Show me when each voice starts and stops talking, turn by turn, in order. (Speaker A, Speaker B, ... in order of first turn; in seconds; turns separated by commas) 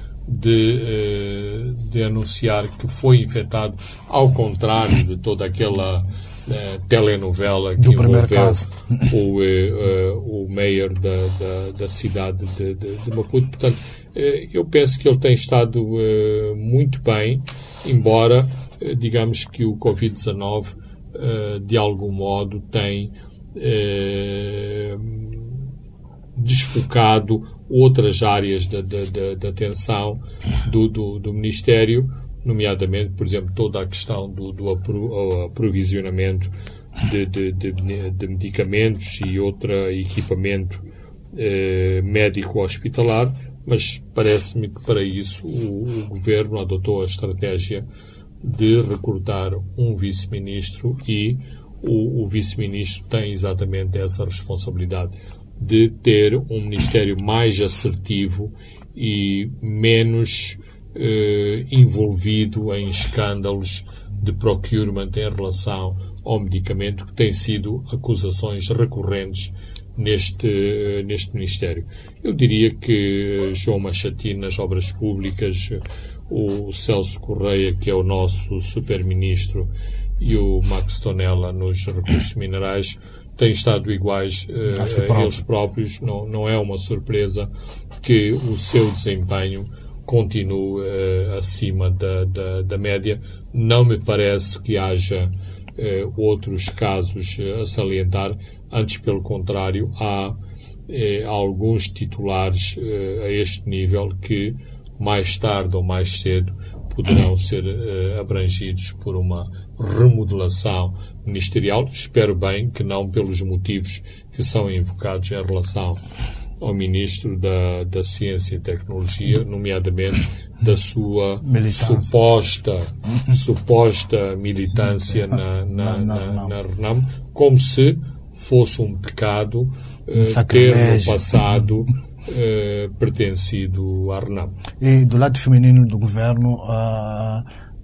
Speaker A: 0.2-25.4, Speaker B: 7.8-9.1, Speaker A: 26.4-40.8, Speaker A: 41.3-47.9, Speaker A: 48.4-87.5, Speaker B: 84.7-85.4, Speaker A: 88.0-100.4, Speaker A: 100.9-116.0, Speaker A: 116.6-134.6, Speaker B: 121.4-122.1, Speaker B: 125.3-126.6, Speaker B: 130.2-131.4, Speaker B: 134.8-137.4